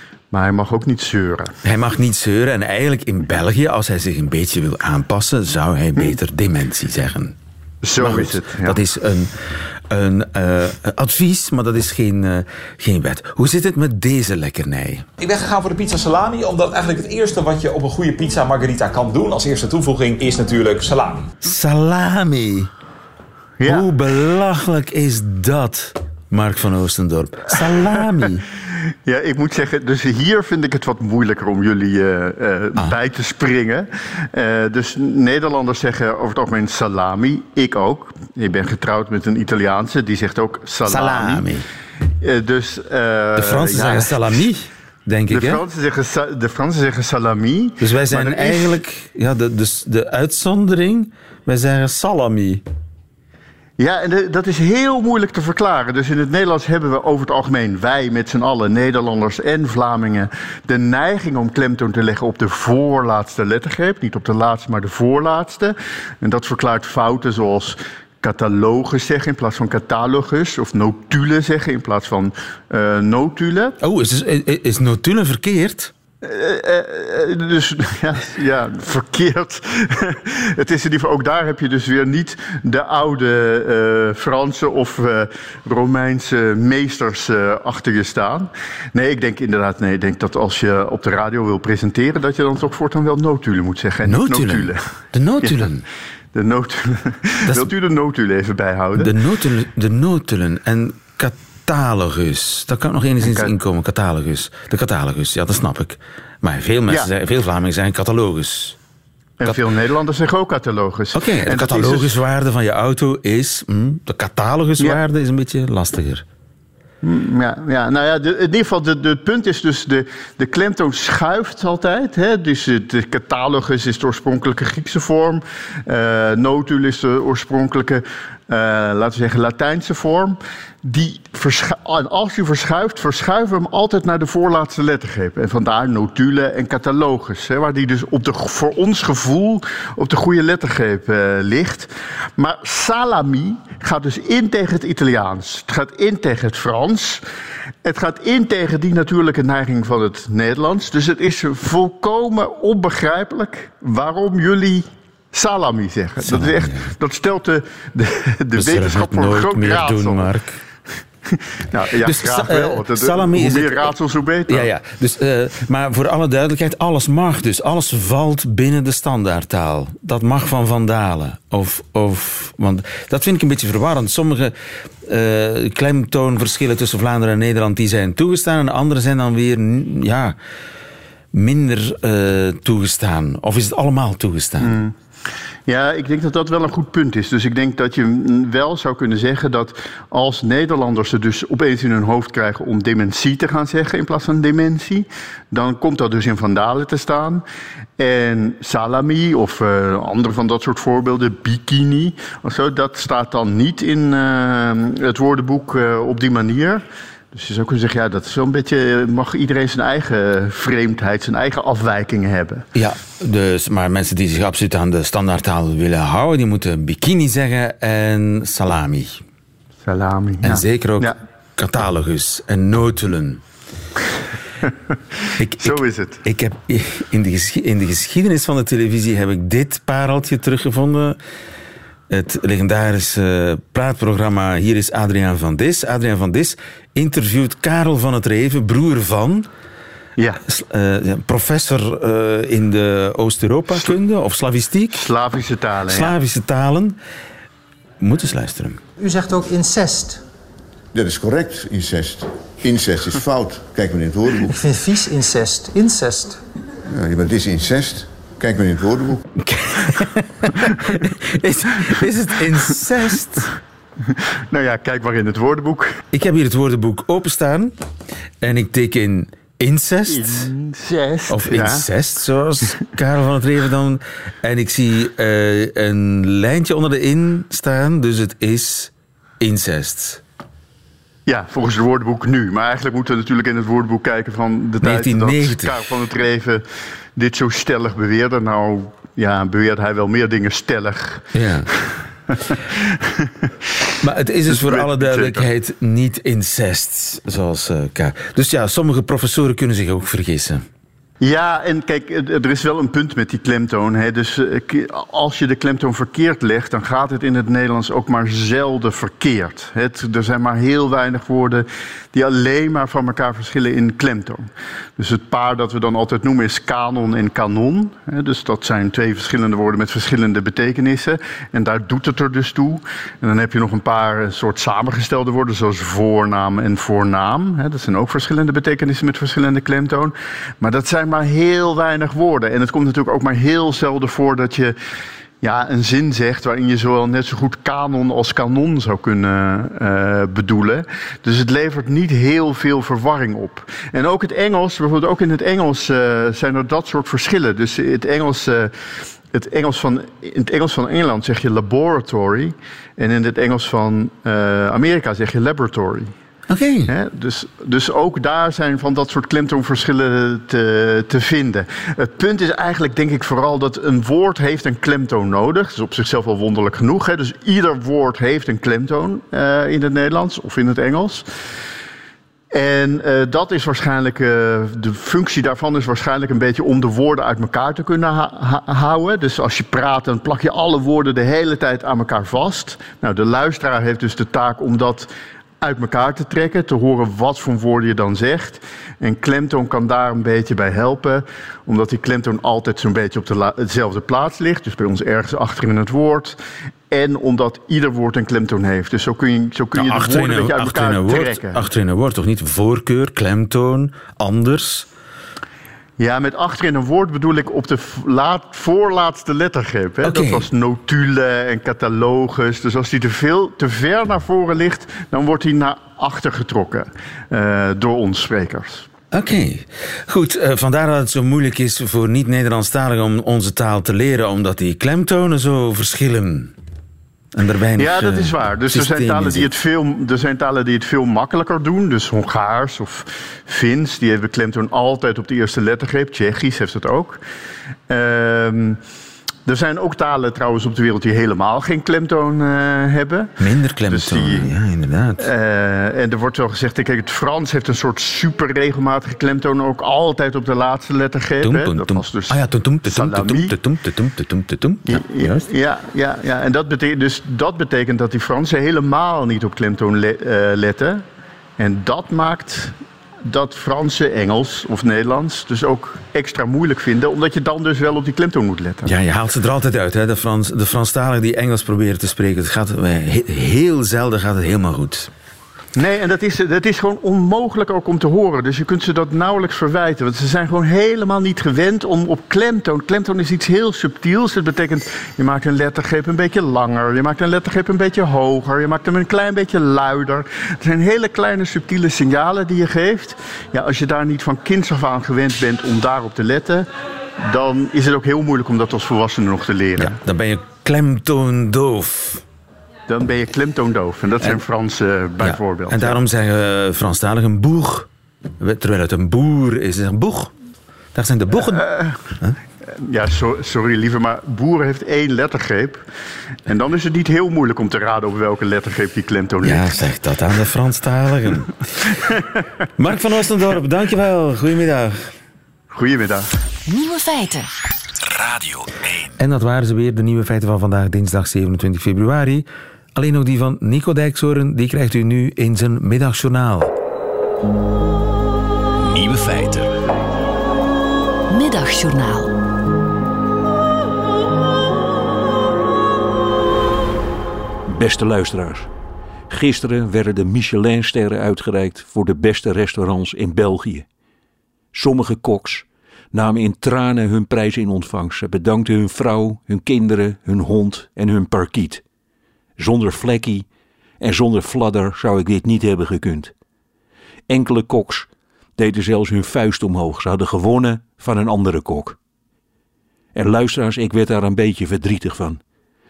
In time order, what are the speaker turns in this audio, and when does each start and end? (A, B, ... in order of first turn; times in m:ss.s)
0:00.3-0:01.5 A
0:01.6-0:07.4 B
0:07.8-0:08.8 A
0:08.0-0:09.3 B
0:09.9-0:15.1 B
0:15.2-0:21.3 C
0:21.4-0:22.7 B
0:23.6-0:23.9 A
0:23.7-0:28.4 B
0:29.0-0:41.4 A
0:40.8-0:41.6 B
0:42.2-0:44.2 A
0:43.4-0:45.6 B
0:45.3-0:48.8 A
0:47.8-0:52.6 B
0:53.8-1:13.8 A
1:13.8-1:15.9 B
1:16.2-1:34.8 A
1:34.0-1:35.8 B
1:35.4-1:35.7 A
1:36.3-1:39.1 A
1:39.0-1:48.8 B
1:43.2-1:43.5 A
1:49.4-1:52.1 A
1:51.1-1:56.2 B
1:57.0-2:27.2 A
2:27.8-2:40.3 A
2:36.3-2:36.9 B
2:38.6-2:40.6 B
2:41.3-2:44.7 A
2:42.0-2:43.9 B
2:44.5-2:54.5 B
2:55.1-3:00.4 B
3:01.3-3:04.8 B
3:04.6-3:05.0 A
3:05.7-3:17.4 A
3:18.0-3:32.6 A
3:32.8-3:39.2 B
3:39.8-3:41.2 A
3:40.4-3:43.4 B
3:45.4-3:51.2 B
3:45.6-3:46.2 A
3:52.1-3:59.5 B
4:00.5-4:05.1 B
4:05.0-4:06.1 A
4:05.9-4:07.0 B
4:08.0-4:08.8 B
4:09.0-4:10.2 D
4:10.9-4:14.5 E
4:14.5-4:16.4 D
4:16.9-4:19.2 E
4:19.4-4:23.5 B
4:24.1-4:26.0 A
4:26.1-4:27.7 B
4:28.4-4:30.5 B
4:30.1-4:31.9 A
4:31.3-4:40.2 B
4:41.3-4:46.6 A
4:44.8-4:45.9 B
4:47.2-4:51.3 A
4:51.3-4:51.7 B
4:52.5-4:53.5 A
4:54.0-5:00.6 B
4:54.5-4:55.5 A
5:01.2-5:34.8 A
5:35.4-5:48.8 A
5:49.3-5:56.1 A
5:56.5-5:56.9 B
5:56.9-6:11.2 A
6:12.5-6:25.1 A
6:25.6-6:36.4 A
6:36.9-6:41.6 A
6:39.7-6:44.9 B
6:46.0-6:58.9 A
6:50.0-6:50.5 B
6:59.1-7:06.5 B
7:07.4-7:09.5 B
7:07.8-7:17.2 A
7:17.9-7:18.8 A
7:19.5-7:23.3 A
7:23.4-7:25.3 B
7:23.9-7:24.5 A
7:25.2-7:33.5 A
7:31.4-7:35.5 B
7:34.9-7:41.0 A
7:41.6-7:42.7 A
7:43.3-7:48.9 A
7:48.8-7:55.1 B
7:55.8-8:16.7 A
8:17.2-8:20.0 A
8:19.8-8:22.2 B
8:22.9-8:26.0 A
8:25.2-8:27.9 B
8:28.4-8:30.3 B
8:31.0-8:31.7 B
8:31.4-8:32.0 A
8:32.7-8:35.8 A
8:36.5-8:39.8 A
8:39.4-8:41.8 B
8:42.8-8:45.1 B
8:45.7-8:46.3 A
8:46.7-8:47.5 F
8:48.0-8:48.9 C
8:49.2-8:56.7 B
8:58.8-8:59.7 C
9:01.3-9:02.4 F
9:07.7-9:08.7 G
9:09.3-9:13.9 G
9:14.7-9:21.8 G
9:22.6-9:23.5 G
9:24.0-9:26.3 G
9:27.3-9:32.0 G
9:33.1-9:35.4 G